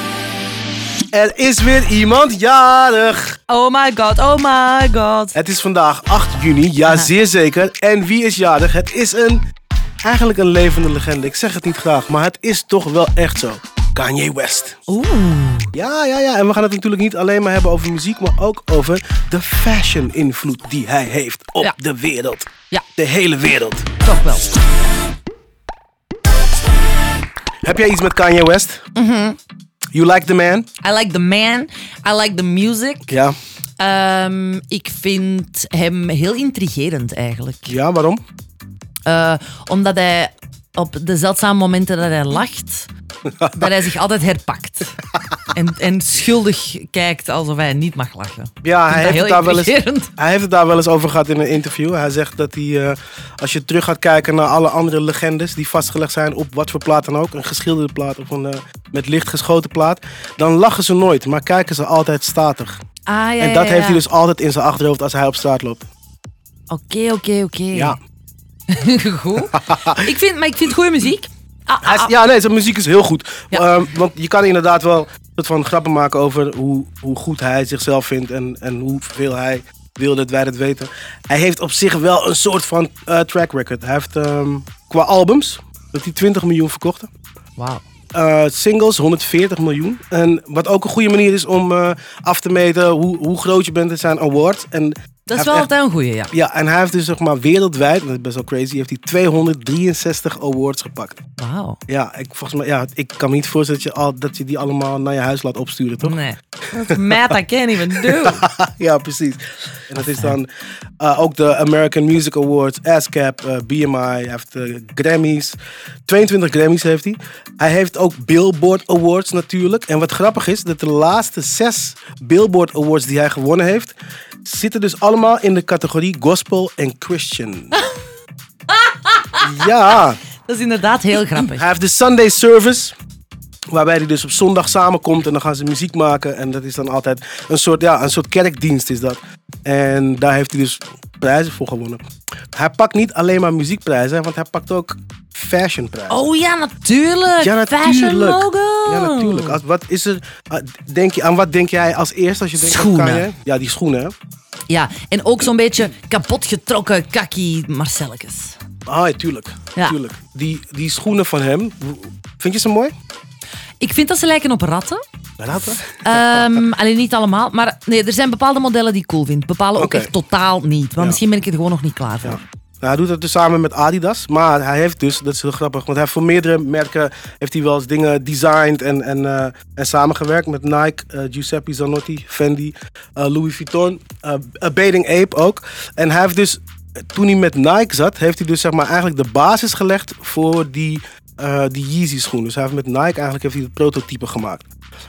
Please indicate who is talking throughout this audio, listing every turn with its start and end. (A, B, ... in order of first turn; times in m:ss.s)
0:01.1-0:03.4 A
0:03.5-0:05.4 B
0:05.4-0:09.4 A
0:10.0-0:14.8 A
0:14.9-0:15.7 B
0:15.7-0:23.9 A
0:24.0-0:24.5 B
0:27.6-0:28.8 A
0:29.0-0:29.4 B
0:29.9-0:30.7 A
0:30.8-0:33.1 B
0:33.1-0:33.4 A
0:33.8-0:37.8 B
0:37.7-0:38.2 A
0:39.1-0:42.9 B
0:43.5-0:45.0 B
0:45.5-0:50.1 B
0:48.6-1:02.8 A
1:03.1-1:04.0 B
1:03.4-1:05.9 A
1:06.7-1:08.0 B
1:07.7-1:08.0 A
1:08.7-1:12.1 B
1:09.5-1:10.1 A
1:11.8-1:27.1 A
1:27.6-1:27.8 B
1:28.1-1:35.7 A
1:35.3-1:36.3 B
1:36.3-1:41.2 A
1:41.4-1:41.8 B
1:41.9-1:46.2 A
1:46.0-1:48.4 B
1:46.9-1:47.2 A
1:48.0-1:50.5 A
1:50.0-1:50.4 B
1:51.0-2:07.8 A
2:08.7-2:11.7 B
2:09.4-2:10.2 A
2:11.4-2:13.0 A
2:13.7-2:22.0 A
2:22.5-2:26.2 A
2:26.1-2:29.6 B
2:27.4-2:34.1 A
2:32.6-2:33.3 B
2:34.7-2:38.6 B
2:38.9-2:42.9 A
2:43.8-2:45.0 B
2:45.4-2:46.5 A
2:45.5-2:52.4 B
2:49.8-2:50.1 A
2:52.2-3:06.6 A
3:07.1-3:14.7 A